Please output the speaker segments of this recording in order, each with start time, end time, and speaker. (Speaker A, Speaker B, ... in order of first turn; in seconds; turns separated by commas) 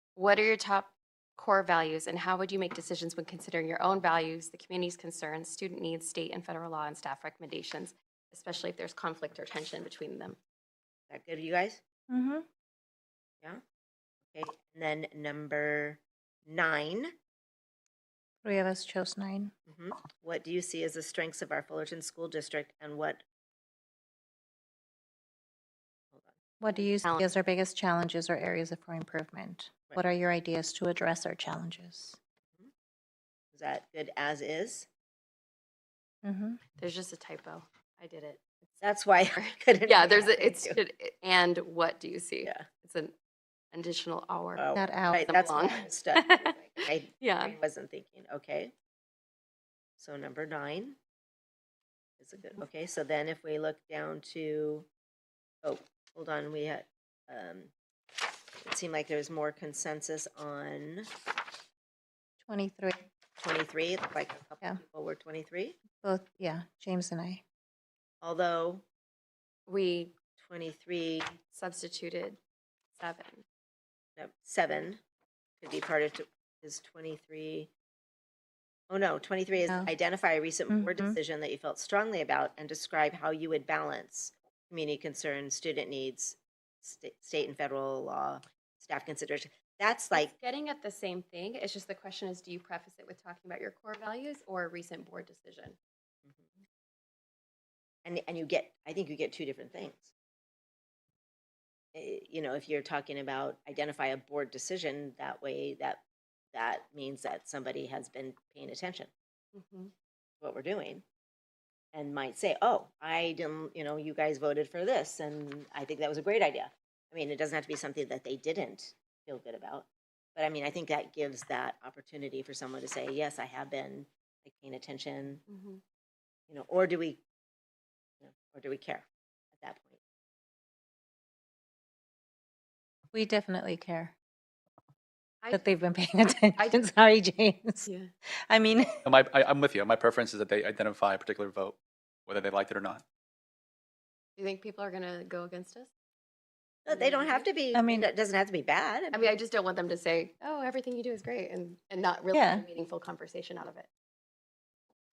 Speaker A: 0.1-10.4, Speaker B: 11.1-11.8, Speaker C: 12.1-12.4, Speaker B: 14.3-17.1, Speaker C: 18.4-19.5, Speaker B: 19.6-23.2, Speaker B: 26.1-26.4, Speaker C: 26.6-32.2, Speaker A: 26.7-27.3, Speaker B: 33.5-34.9, Speaker C: 36.2-36.6, Speaker A: 36.8-38.7, Speaker B: 38.8-40.8, Speaker A: 39.3-43.1, Speaker A: 43.7-47.6, Speaker B: 44.6-48.7, Speaker C: 44.7-45.2, Speaker B: 50.0-51.0, Speaker B: 52.2-54.9, Speaker B: 55.6-57.7, Speaker B: 58.6-61.1, Speaker C: 62.4-63.1, Speaker B: 63.4-65.8, Speaker C: 66.0-67.4, Speaker B: 68.2-68.8, Speaker A: 69.7-70.1, Speaker B: 70.4-71.4, Speaker A: 71.4-72.4, Speaker A: 72.9-73.4, Speaker B: 74.2-75.0, Speaker B: 75.6-77.7, Speaker B: 78.9-90.3, Speaker C: 79.6-79.9, Speaker C: 80.7-81.2, Speaker A: 90.1-95.8, Speaker B: 98.0-100.1, Speaker B: 101.9-109.1, Speaker A: 109.5-109.9, Speaker B: 110.4-111.0, Speaker B: 111.9-125.4, Speaker A: 125.5-125.8, Speaker B: 126.5-127.2, Speaker B: 128.2-129.0, Speaker B: 129.6-130.0, Speaker C: 133.1-134.1, Speaker C: 135.5-137.9, Speaker A: 136.5-136.9, Speaker C: 138.5-139.0, Speaker D: 139.1-143.0, Speaker A: 144.4-145.9, Speaker B: 146.8-149.3, Speaker A: 146.9-147.5, Speaker C: 147.7-148.1, Speaker A: 149.1-153.9, Speaker C: 152.3-152.6